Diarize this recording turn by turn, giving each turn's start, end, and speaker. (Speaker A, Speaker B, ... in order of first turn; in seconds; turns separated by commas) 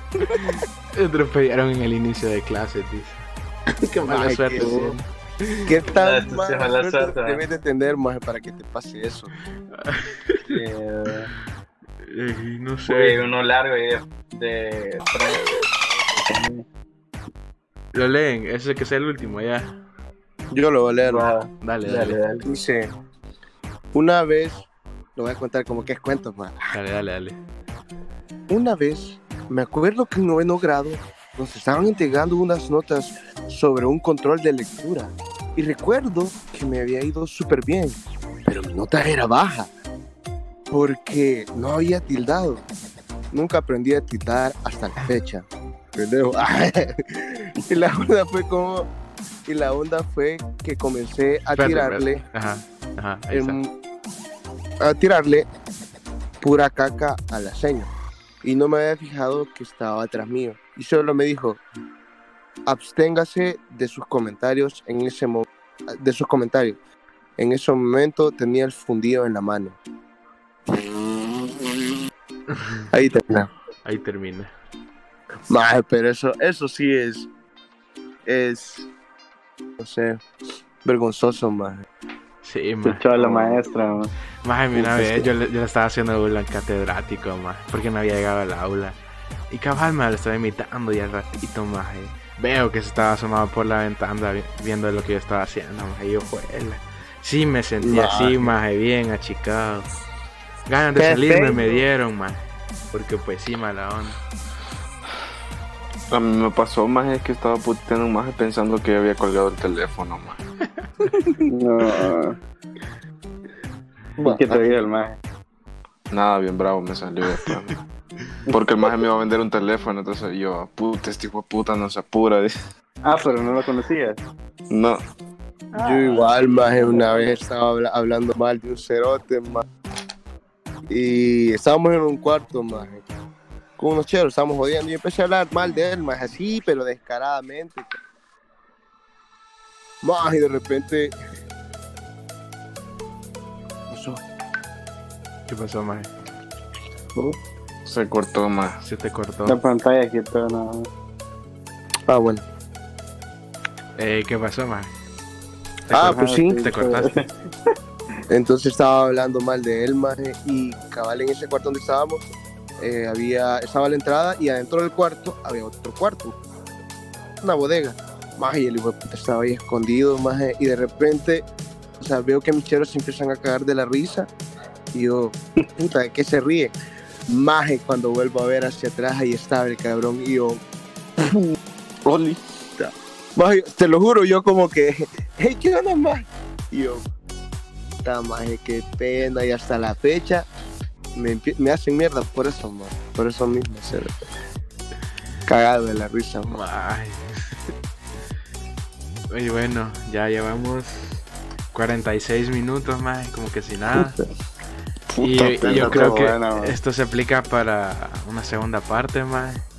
Speaker A: 0.3-3.2, Speaker B: 3.8-5.0, Speaker A: 4.0-5.6, Speaker C: 4.6-4.8, Speaker B: 5.7-9.3, Speaker C: 6.0-7.4, Speaker A: 9.8-10.4, Speaker C: 10.5-11.3, Speaker A: 12.0-13.2, Speaker C: 12.9-16.6, Speaker A: 17.9-19.8, Speaker B: 20.5-21.3, Speaker C: 21.1-22.5, Speaker A: 21.6-22.2, Speaker B: 22.4-22.9, Speaker B: 23.9-26.8, Speaker A: 26.7-27.4, Speaker B: 28.5-39.7, Speaker B: 40.7-42.6, Speaker B: 43.3-48.9, Speaker B: 49.5-52.2, Speaker A: 51.6-53.6, Speaker B: 53.3-53.7, Speaker B: 54.8-55.5, Speaker B: 56.4-57.9, Speaker B: 58.4-61.6, Speaker B: 62.7-66.8, Speaker B: 67.4-69.8, Speaker B: 70.7-71.7, Speaker B: 72.9-73.5, Speaker A: 73.8-74.5, Speaker B: 75.5-77.3, Speaker B: 78.3-78.9, Speaker B: 79.8-80.2, Speaker B: 80.8-81.8, Speaker A: 82.4-83.0, Speaker C: 82.8-84.1, Speaker D: 83.2-83.6, Speaker A: 84.4-89.0, Speaker A: 89.5-99.9, Speaker B: 97.8-98.5, Speaker A: 100.7-104.2, Speaker B: 101.0-101.8, Speaker D: 106.1-110.4, Speaker C: 111.5-112.4, Speaker C: 114.2-115.2, Speaker B: 114.2-114.7, Speaker D: 116.1-117.8, Speaker D: 118.5-122.7, Speaker C: 123.0-124.2, Speaker D: 124.7-125.0, Speaker C: 125.8-127.4, Speaker B: 125.8-129.7, Speaker B: 130.9-133.1, Speaker B: 133.8-137.9, Speaker B: 140.0-141.1, Speaker B: 143.9-144.2, Speaker A: 145.5-146.1, Speaker D: 147.8-148.8, Speaker A: 148.8-149.6, Speaker C: 149.5-150.9, Speaker B: 152.1-152.4, Speaker A: 154.0-154.9, Speaker A: 155.9-157.1, Speaker B: 155.9-156.6, Speaker C: 156.0-157.2, Speaker B: 158.3-166.3, Speaker B: 167.4-171.5, Speaker B: 172.0-174.3, Speaker B: 174.9-176.7, Speaker B: 177.3-180.6, Speaker D: 182.1-182.4, Speaker B: 182.8-187.1, Speaker B: 188.0-190.5, Speaker B: 191.2-194.1, Speaker B: 195.5-196.6, Speaker A: 196.5-197.6, Speaker A: 199.3-204.2, Speaker D: 205.1-206.2, Speaker A: 205.2-209.6, Speaker B: 205.6-206.1, Speaker C: 205.7-206.8